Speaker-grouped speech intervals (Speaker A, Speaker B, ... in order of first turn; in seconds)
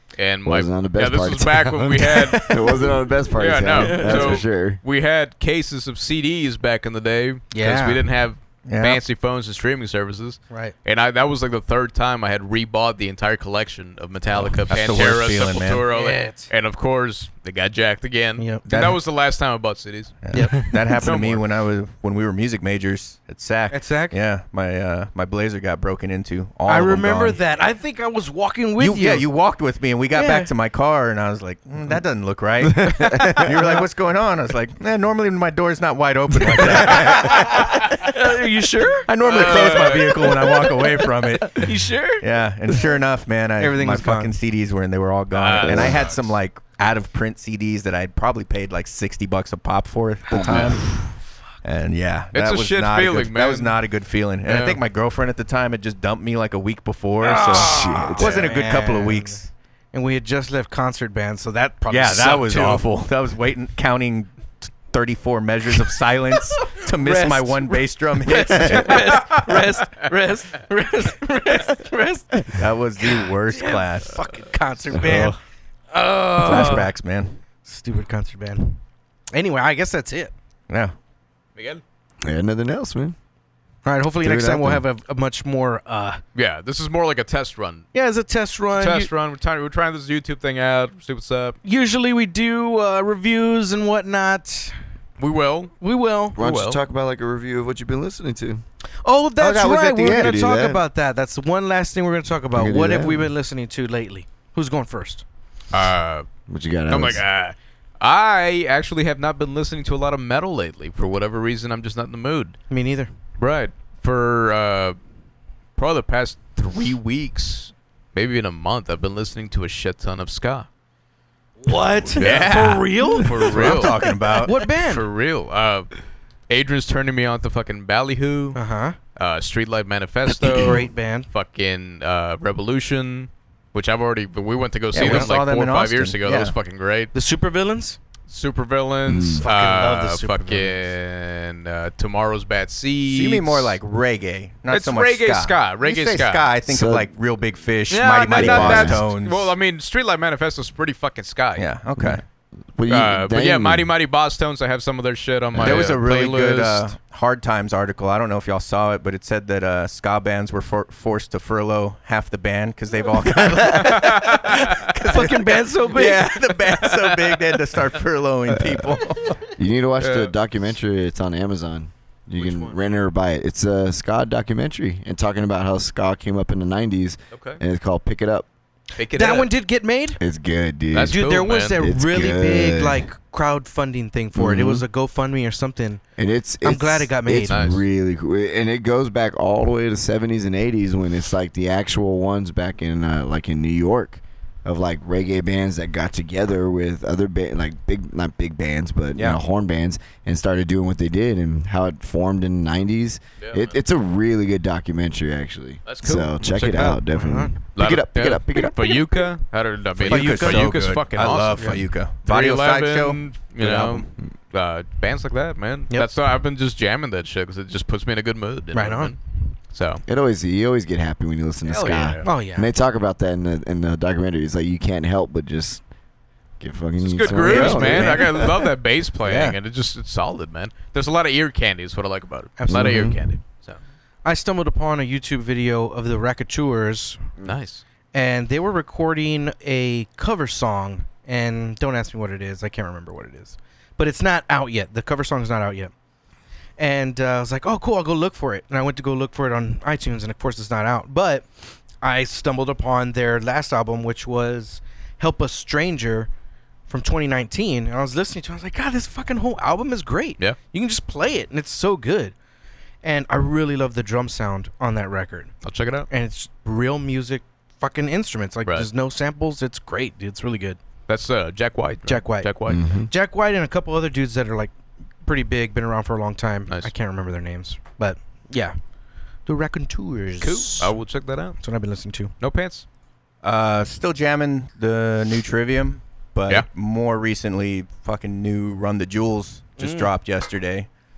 Speaker A: 0.1-2.6, 3.4-21.4, 39.2-40.6, 45.3-46.3, 52.3-53.8, 54.5-54.8, 68.9-69.4, 81.5-81.8, 86.3-87.9, 88.8-91.6, 95.2-95.7, 96.4-96.8, 105.7-106.2, 106.9-112.6, 113.4-115.0, 115.8-120.7, 122.2-124.0, 124.6-125.9, 126.5-128.6, 129.2-137.1, 138.3-143.8, 144.7-146.5, 147.9-151.7, 152.9-156.9, 163.7-164.9, 166.8-167.4, 170.0-170.3, 177.3-177.6, 179.0-179.5, 180.9-181.8, 187.5-187.8, 203.4-203.8, 205.8-207.0, 207.7-219.2, 219.7-220.0, 221.6-222.3, 227.0-233.8, 237.4-237.8, 265.6-266.1, 271.1-272.8, 280.4-281.6, 282.4-282.8
Speaker B: 0.4-4.8, 32.6-33.5, 45.6-46.0, 50.3-50.8, 57.5-58.4, 82.2-83.2, 84.2-84.8, 96.3-98.6, 99.9-100.8, 102.5-103.3, 106.5-107.2, 139.1-139.4, 146.7-147.1, 148.3-149.0, 152.7-153.9, 155.5-155.9, 168.6-168.9, 169.5-178.5, 180.2-183.1, 184.3-184.8, 186.2-209.0, 220.1-225.8, 226.6-228.6, 232.7-233.2, 272.7-273.1
Speaker C: 2.4-2.9, 3.7-4.4, 7.5-8.0, 15.9-16.5, 18.4-18.6, 20.3-20.6, 23.7-24.1, 26.6-29.3, 30.1-30.5, 36.5-40.9, 41.4-42.2, 43.6-44.4, 50.3-51.1, 57.2-59.4, 59.9-62.8, 66.8-75.3, 75.9-76.9, 77.6-78.8, 79.3-80.3, 83.8-86.2, 87.9-89.1, 91.6-94.7, 95.8-96.4, 99.0-105.2, 112.7-113.1, 121.6-125.0, 128.5-129.0, 130.3-131.3, 135.0-135.3, 137.1-138.0, 139.4-140.9, 165.0-166.3, 172.4-172.7, 179.1-180.2, 181.1-186.0, 186.6-187.6, 207.1-207.6, 210.1-210.7, 218.7-219.1, 222.2-222.7, 232.6-233.2, 234.2-237.3, 238.1-245.9, 246.8-251.5, 252.0-256.3, 256.9-262.3, 263.0-265.5, 266.1-270.8, 272.1-274.7, 275.2-278.8, 279.4-280.9, 281.6-282.3, 289.8-290.1
Speaker D: 8.7-9.0, 14.5-15.8, 18.7-19.0, 20.2-27.4, 28.8-38.2, 39.1-51.0, 51.6-59.5, 61.9-69.4, 72.5-74.2, 74.9-75.4, 76.4-77.4, 80.7-80.9, 99.4-100.4, 122.2-124.5, 134.9-136.5, 143.1-149.5, 151.6-152.2, 155.6-169.4, 199.1-199.4, 209.9-214.1, 227.2-228.5, 229.2-229.6, 283.4-290.9